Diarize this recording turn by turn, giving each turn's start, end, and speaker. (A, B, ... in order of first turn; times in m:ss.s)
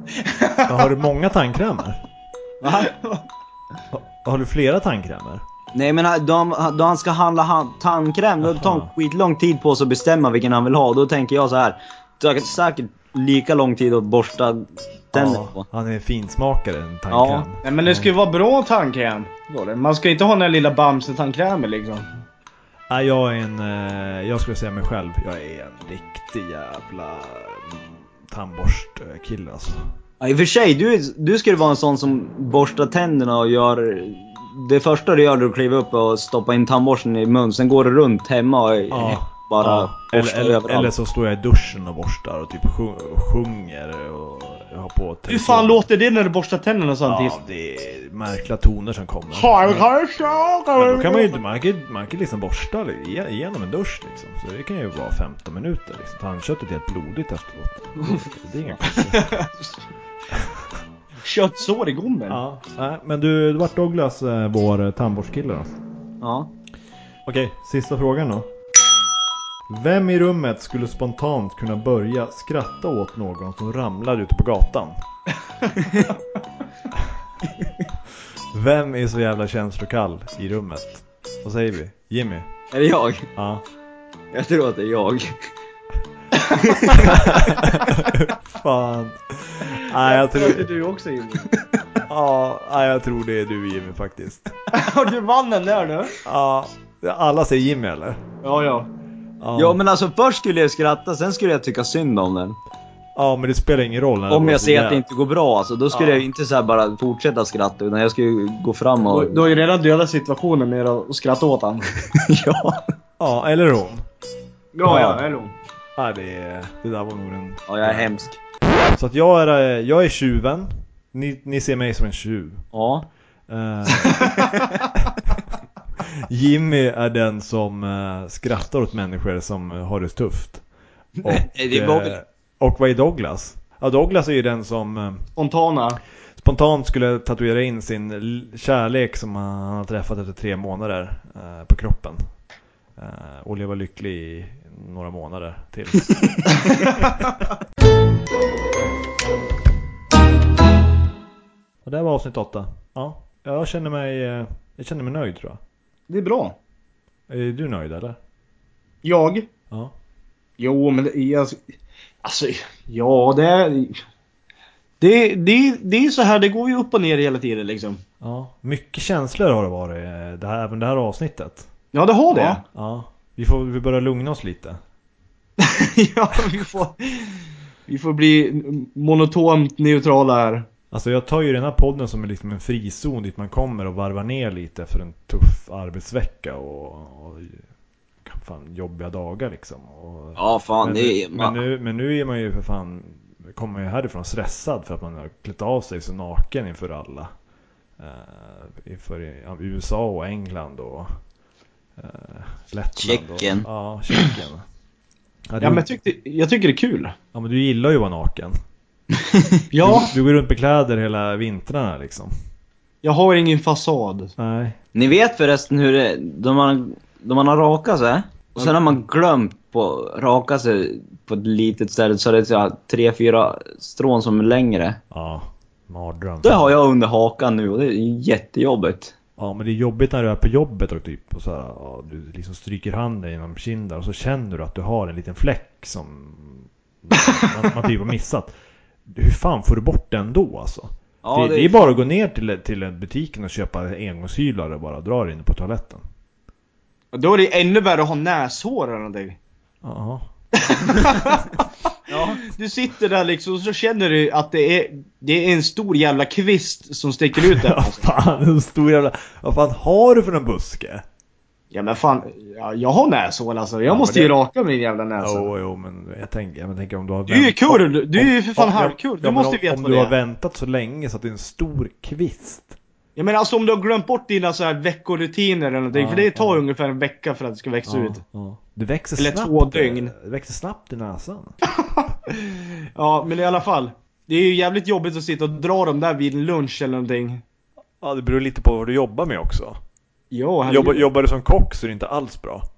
0:00.2-0:00.8 A
0:00.6-0:02.0 B
0:02.6-0:02.9 C
0:02.7-0:03.2 A
0:03.9-0:05.4 B
0:05.7-0:15.6 C
0:08.4-0:08.9 B
0:15.1-0:18.1 B
0:17.1-0:17.4 C
0:17.6-0:22.1 A
0:22.9-0:29.8 B
0:30.2-0:40.9 C
0:38.9-0:45.8 B
0:45.3-0:47.4 A
0:47.0-0:49.9 B
0:49.3-0:51.4 A
0:50.8-0:59.4 B
0:58.8-0:59.8 A
1:00.3-1:00.6 B
1:01.2-1:02.4 A
1:02.3-1:05.7 B
1:06.2-1:06.5 C
1:07.2-1:08.5 B
1:09.7-1:15.0 B
1:15.7-1:16.1 C
1:18.5-1:22.5 B
1:22.7-1:23.3 C
1:23.4-1:23.6 B
1:24.3-1:25.3 C
1:26.3-1:27.1 A
1:26.7-1:27.2 C
1:27.0-1:30.7 B
1:30.0-1:31.8 A
1:32.1-1:34.5 B
1:34.7-1:36.1 A
1:36.2-1:38.2 B
1:38.4-1:38.9 A
1:39.4-1:39.8 B
1:39.6-1:42.6 C
1:43.2-1:45.0 B
1:44.3-1:49.5 C
1:45.9-1:46.3 B
1:49.1-1:51.9 A
1:52.1-1:52.8 C
1:53.2-1:54.0 B
1:54.7-1:55.5 A
1:54.8-1:55.2 B
1:56.0-1:58.1 B
1:57.7-1:58.4 C
1:58.9-2:02.6 B
2:02.7-2:03.1 C
2:03.5-2:04.4 B
2:06.0-2:10.6 B
2:11.2-2:12.2 C
2:11.2-2:15.3 B
2:15.4-2:16.0 A
2:16.4-2:22.2 B
2:23.0-2:27.3 B
2:31.8-2:35.6 B
2:36.1-2:36.6 A
2:37.3-2:38.2 B
2:39.0-2:39.5 A
2:40.6-2:44.0 A
2:45.0-2:48.0 A
2:48.2-2:51.7 B
2:51.9-2:52.6 A
2:52.3-2:54.8 B
2:55.6-3:00.7 A
3:00.9-3:07.6 B
3:08.2-3:17.3 B
3:10.4-3:11.6 C
3:18.0-3:21.1 B
3:22.0-3:24.6 B
3:23.0-3:24.3 C
3:25.5-3:25.9 B
3:25.6-3:27.2 A
3:27.3-3:28.6 B
3:29.1-3:29.6 C
3:29.7-3:30.1 A
3:29.8-3:32.3 B
3:33.0-3:34.3 A
3:34.4-3:34.8 B
3:34.9-3:45.0 C
3:45.1-3:46.8 B
3:46.4-3:49.1 C
3:49.4-3:58.5 B
3:59.1-4:06.0 B
4:01.2-4:01.7 C
4:07.1-4:09.4 A
4:09.8-4:10.3 B
4:10.6-4:18.1 A
4:12.1-4:12.4 C
4:17.4-4:21.0 B
4:21.7-4:25.5 A
4:23.9-4:24.3 B
4:25.2-4:32.8 B
4:27.3-4:30.1 A
4:33.2-4:38.2 A
4:35.9-4:36.6 B
4:37.8-4:41.6 B
4:39.2-4:40.1 A
4:41.8-4:47.4 A
4:48.0-4:49.8 B
4:50.3-4:51.1 A
4:50.6-4:52.6 B